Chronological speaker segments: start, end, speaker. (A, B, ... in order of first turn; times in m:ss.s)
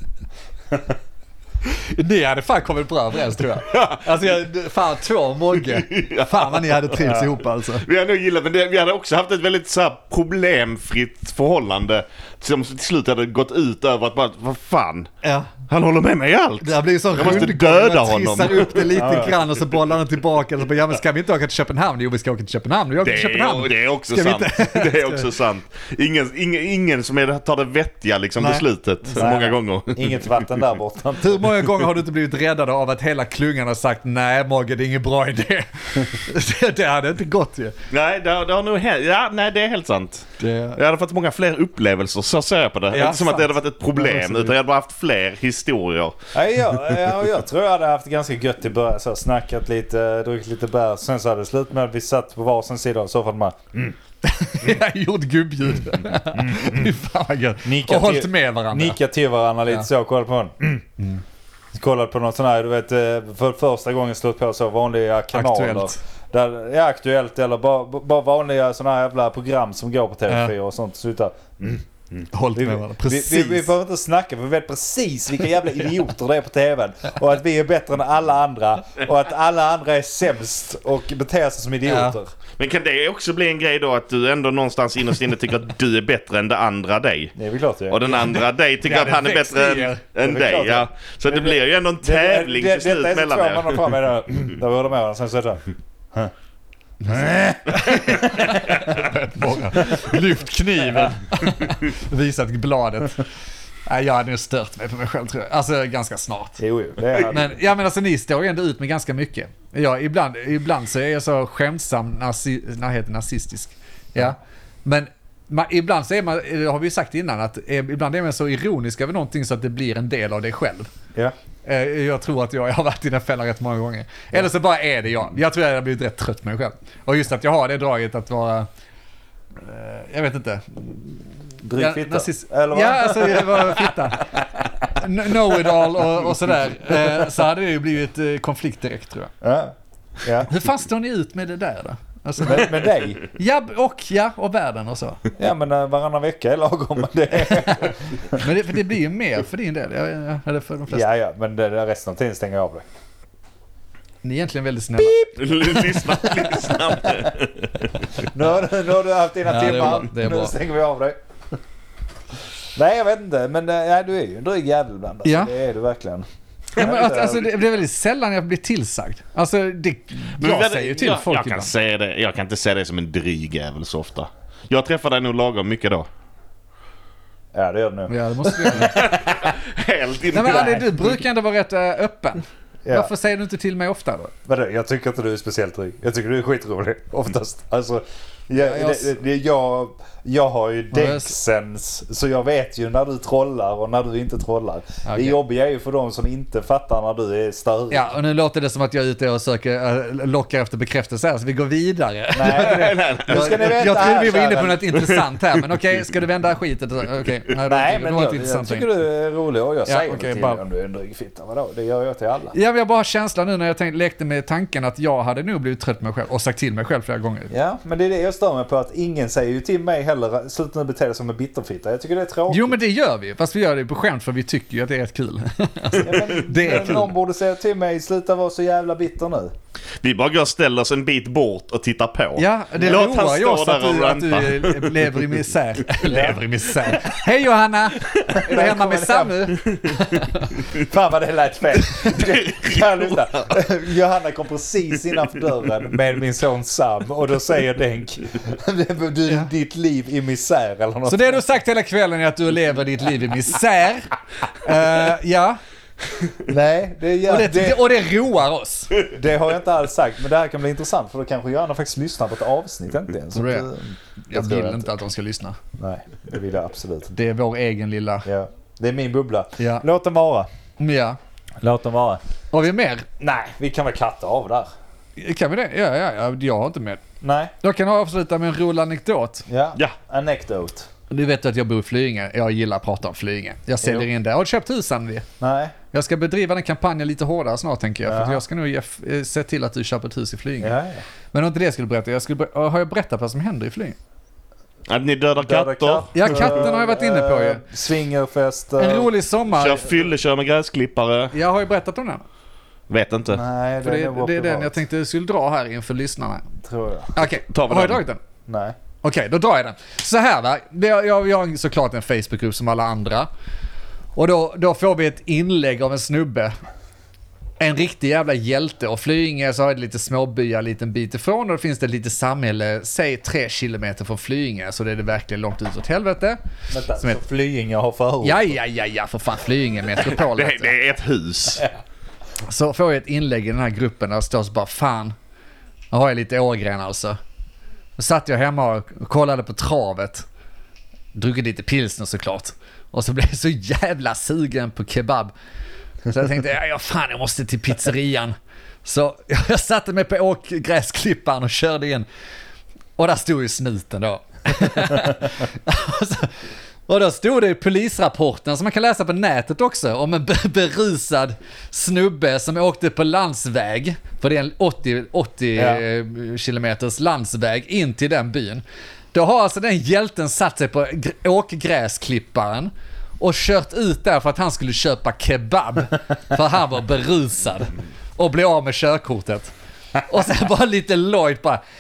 0:01.6-0:07.9 A
0:03.7-0:04.1 B
0:05.6-0:07.3 B
0:07.8-0:15.1 B
0:15.2-0:15.5 A
0:15.7-0:19.3 B
0:16.6-0:25.3 A
0:18.9-0:19.4 C
0:23.0-0:30.6 B
0:28.4-0:28.7 A
0:29.2-0:31.5 C
0:31.2-0:37.7 A
0:37.9-0:46.2 B
0:40.4-0:40.8 A
0:42.9-0:44.6 A
0:46.3-0:54.0 C
0:54.2-0:59.0 A
0:56.3-0:56.9 C
0:57.6-1:00.8 C
1:01.7-1:22.3 C
1:05.3-1:06.0 A
1:10.3-1:10.5 A
1:12.3-1:13.7 A
1:21.9-1:22.2 A
1:22.6-1:27.3 B
1:27.4-1:28.4 C
1:27.9-1:33.9 B
1:28.8-1:30.0 A
1:30.2-1:35.6 C
1:37.1-1:39.0 C
1:37.2-1:43.2 A
1:43.9-1:46.6 A
1:46.6-1:47.5 C
1:47.2-2:00.9 A
2:01.6-2:08.7 A
2:09.6-2:19.3 A
2:11.6-2:15.0 C
2:15.6-2:16.1 C
2:19.4-2:20.5 C
2:20.5-2:25.2 A
2:22.4-2:23.3 C
2:25.4-2:28.4 C
2:28.3-2:31.0 A
2:30.9-2:32.8 C
2:34.2-2:35.4 A
2:35.0-2:37.3 C
2:35.4-2:38.0 B
2:38.2-2:41.2 C
2:39.5-2:40.6 A
2:42.8-2:47.5 C
2:45.2-2:45.5 A
2:46.8-2:51.7 A
2:50.4-2:56.1 B
2:57.6-2:59.5 C
2:58.1-2:59.1 A
2:58.8-3:00.9 B
3:00.3-3:04.3 A
3:00.3-3:00.9 C
3:02.8-3:03.1 C
3:04.5-3:18.1 C
3:08.6-3:09.1 A
3:10.9-3:11.3 A
3:15.1-3:15.4 A
3:17.9-3:28.9 A
3:22.4-3:25.0 C
3:22.6-3:23.8 B
3:27.6-3:32.6 C
3:29.9-3:30.6 A
3:32.5-3:37.5 A
3:37.5-3:42.8 C
3:42.5-3:47.1 A
3:46.0-3:49.5 C
3:50.0-3:55.2 B
3:52.4-4:00.5 A
3:56.0-3:57.2 C
3:58.2-3:59.9 C
4:00.7-4:11.4 C
4:02.1-4:03.4 B
4:11.1-4:15.6 A
4:16.4-4:17.8 C
4:17.3-4:19.0 A
4:19.0-4:24.9 C
4:23.3-4:23.7 A
4:24.3-4:25.6 A
4:25.8-4:27.1 C
4:27.1-4:28.3 A
4:28.2-4:30.5 C
4:29.6-4:29.8 A
4:30.8-4:31.2 A
4:31.6-4:32.2 C
4:32.5-4:33.1 A
4:33.2-4:34.7 C
4:35.2-4:37.0 A
4:37.2-4:37.5 C
4:37.6-4:39.4 A
4:39.5-4:40.9 C
4:41.1-4:45.3 A
4:45.4-4:45.8 C
4:45.9-4:50.8 A
4:48.0-4:48.4 C
4:50.6-4:51.0 C
4:51.3-4:54.0 A
4:54.9-4:56.1 B
4:55.4-4:59.1 C
4:56.2-4:57.6 A
4:58.8-5:00.0 A
4:59.5-5:01.4 B
5:01.3-5:02.2 A
5:02.9-5:03.4 B
5:03.3-5:04.8 C
5:03.8-5:06.5 A
5:06.6-5:07.2 C
5:07.2-5:08.2 A
5:07.5-5:08.0 B
5:08.5-5:08.8 C
5:09.0-5:13.3 A
5:14.2-5:16.5 A
5:17.6-5:26.4 A
5:26.7-5:28.5 C
5:28.2-5:30.8 A
5:29.9-5:31.7 B
5:32.5-5:35.1 A
5:35.9-5:37.2 A
5:38.0-5:40.2 A
5:41.2-5:45.3 A
5:46.1-5:48.3 A
5:48.8-5:52.1 A
5:53.0-6:08.6 A
6:05.6-6:05.8 C
6:09.1-6:19.5 A
6:20.0-6:21.6 A